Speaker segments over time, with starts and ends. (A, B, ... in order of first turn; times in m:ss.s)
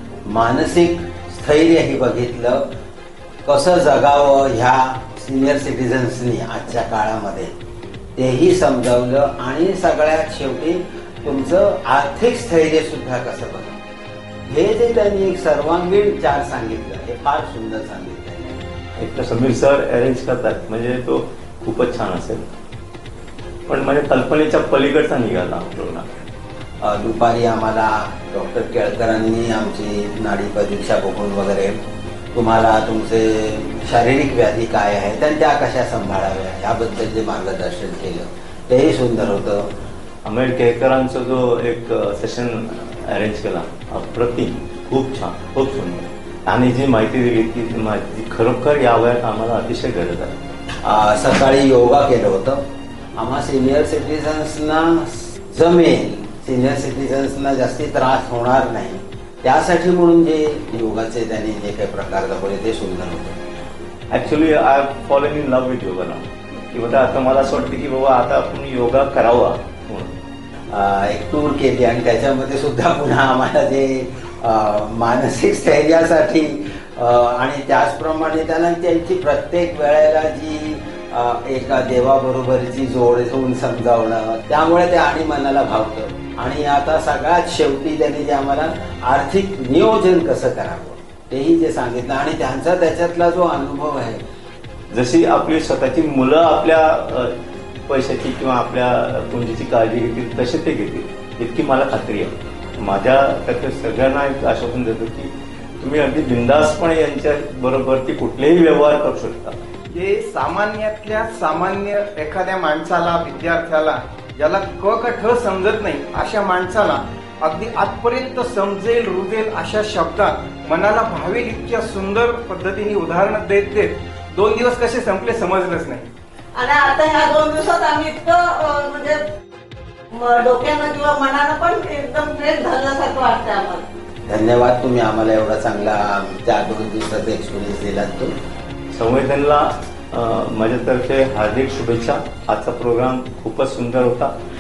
0:00.3-0:02.7 A
0:03.5-0:07.5 A
0:08.2-0:13.8 A
0:14.5-0:18.6 A
0:19.0-0:22.4 B
0:23.7-0:26.1 B
0:26.8-0:31.8 A
0:32.3-0:39.7 A
0:40.2-0:50.4 B
0:50.8-0:52.6 A
0:53.2-1:03.4 A
1:04.1-1:10.1 B
1:10.7-1:34.2 A
1:34.9-1:37.4 B
1:37.9-1:49.6 B
1:49.9-2:06.1 C
2:06.6-2:09.2 D
2:10.1-2:13.8 D
2:14.3-2:18.3 A
2:18.9-2:24.3 B